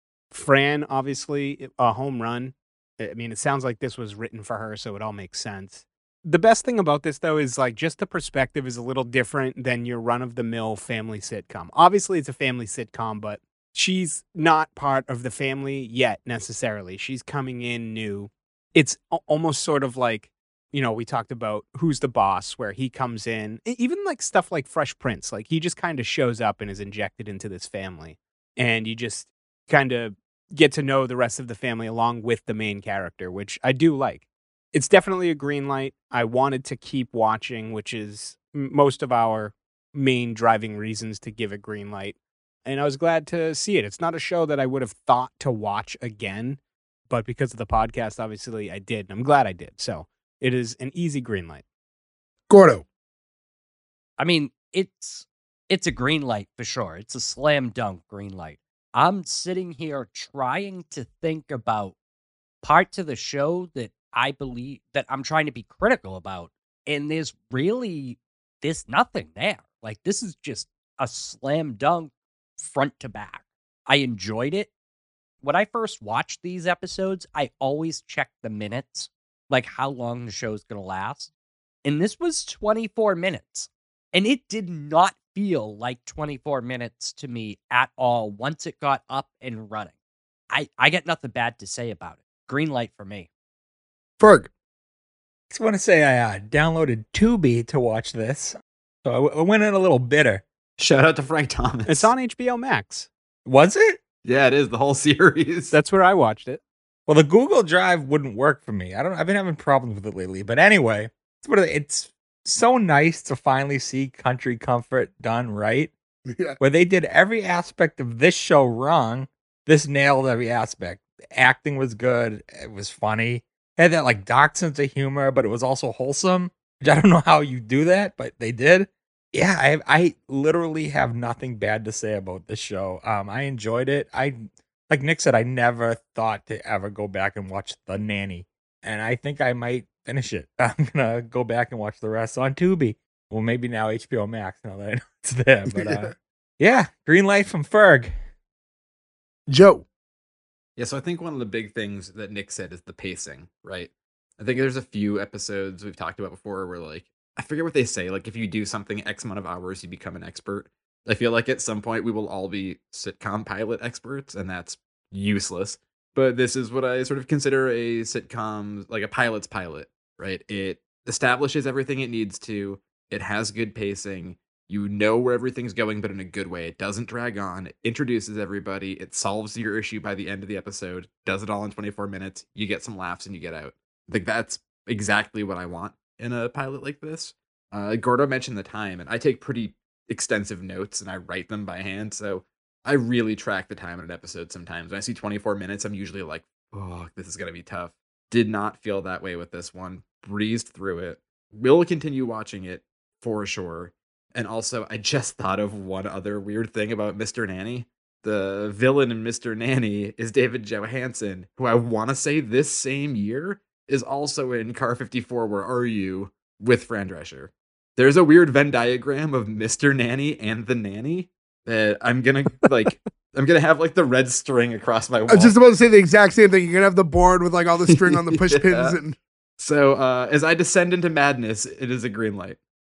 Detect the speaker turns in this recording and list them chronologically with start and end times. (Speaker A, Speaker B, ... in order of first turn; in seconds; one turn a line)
Speaker A: 0.3-51.6
Speaker B: 52.5-52.8
Speaker C: 54.2-62.0
Speaker C: 62.6-74.7
Speaker C: 75.4-81.3
Speaker C: 81.8-89.9
Speaker C: 90.5-93.3
Speaker B: 94.2-94.5
Speaker D: 95.5-100.4
Speaker E: 100.8-102.1
Speaker A: 101.9-103.1
Speaker D: 103.5-104.0
Speaker E: 104.2-105.7
Speaker A: 105.7-106.6
Speaker D: 107.1-115.9
Speaker B: 116.3-116.6
Speaker D: 116.6-148.1
Speaker B: 145.7-146.1
Speaker B: 149.5-149.8
Speaker E: 150.8-225.5
Speaker B: 225.3-229.2
Speaker E: 227.9-229.0
Speaker E: 229.6-232.6